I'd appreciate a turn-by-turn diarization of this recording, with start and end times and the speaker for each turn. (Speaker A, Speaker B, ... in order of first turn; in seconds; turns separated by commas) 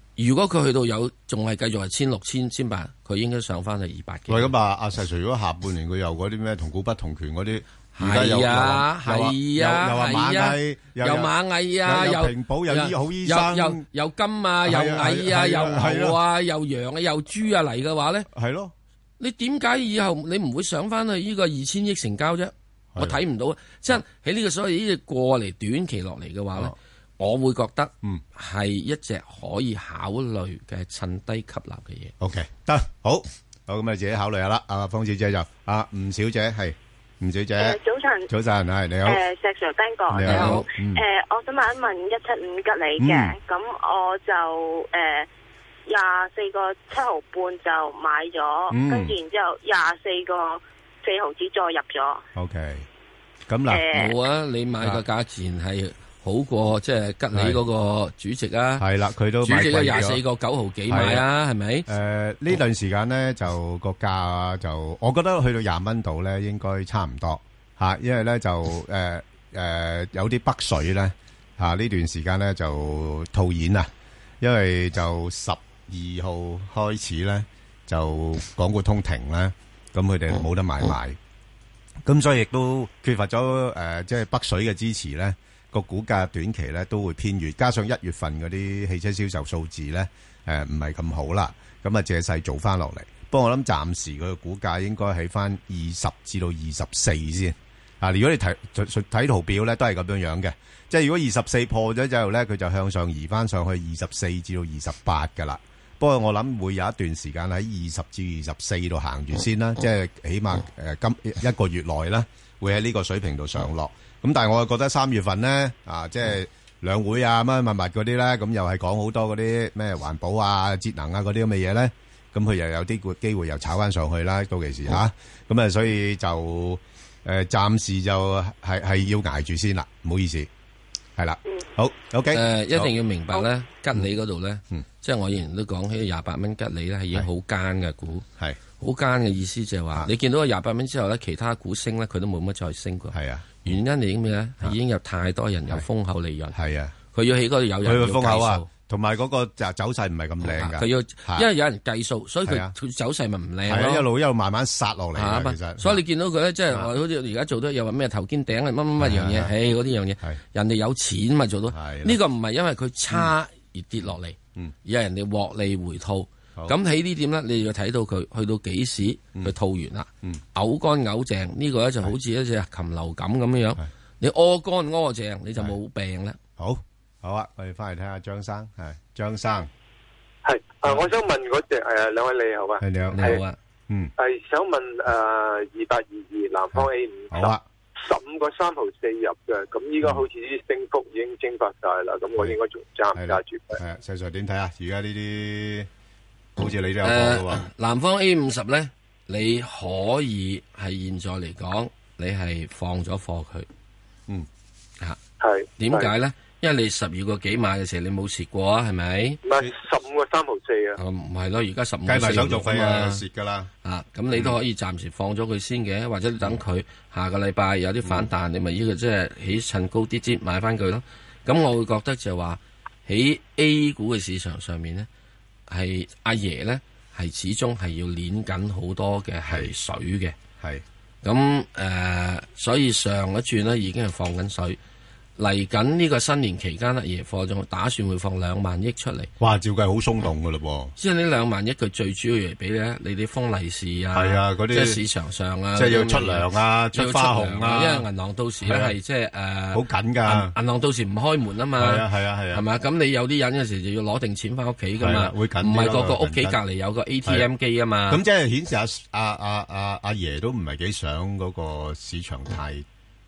Speaker A: 0.2-4.5, Speaker B: 4.3-11.3, Speaker A: 8.0-18.3, Speaker B: 11.8-13.8, Speaker B: 14.7-16.2, Speaker B: 18.3-18.7, Speaker A: 19.2-32.1, Speaker B: 32.2-37.8, Speaker C: 37.6-38.3, Speaker B: 38.3-39.2, Speaker C: 39.0-45.3, Speaker B: 40.1-41.0, Speaker A: 40.2-40.7, Speaker B: 43.0-43.4, Speaker C: 45.9-52.2, Speaker B: 48.7-49.2, Speaker B: 52.4-52.9, Speaker B: 53.5-53.9, Speaker C: 53.7-54.1, Speaker A: 53.9-58.9, Speaker B: 57.3-57.6, Speaker B: 58.8-60.2, Speaker A: 59.4-61.9, Speaker B: 60.9-61.2, Speaker B: 61.9-73.9, Speaker B: 74.4-81.2, Speaker B: 82.0-130.5, Speaker B: 131.2-132.9, Speaker A: 132.3-138.3, Speaker A: 138.8-146.6, Speaker B: 143.1-143.8, Speaker B: 146.5-146.9, Speaker A: 147.1-148.7, Speaker B: 147.8-151.5, Speaker A: 150.4-154.1, Speaker B: 152.5-152.7, Speaker B: 153.7-156.0, Speaker A: 155.2-176.4, Speaker B: 159.0-159.5, Speaker B: 161.7-162.2, Speaker B: 176.6-179.7, Speaker D: 180.4-183.4, Speaker B: 182.8-183.4, Speaker A: 183.1-183.6, Speaker D: 184.2-193.8, Speaker B: 186.7-187.6, Speaker B: 193.1-195.9, Speaker B: 196.6-197.7, Speaker A: 197.0-203.7, Speaker D: 205.4-206.1, Speaker A: 205.8-209.4, Speaker D: 209.4-211.0, Speaker A: 211.0-213.2, Speaker B: 212.1-213.7, Speaker A: 213.8-225.1, Speaker B: 218.0-218.3, Speaker A: 225.7-230.4, Speaker B: 229.5-229.7, Speaker A: 231.2-234.8, Speaker A: 235.4-239.3, Speaker B: 239.4-240.9, Speaker A: 241.0-258.2, Speaker B: 244.1-245.0, Speaker B: 245.8-248.1, Speaker B: 248.6-248.9, Speaker B: 249.7-250.5, Speaker B: 251.8-252.6, Speaker B: 255.0-256.6, Speaker B: 258.1-262.9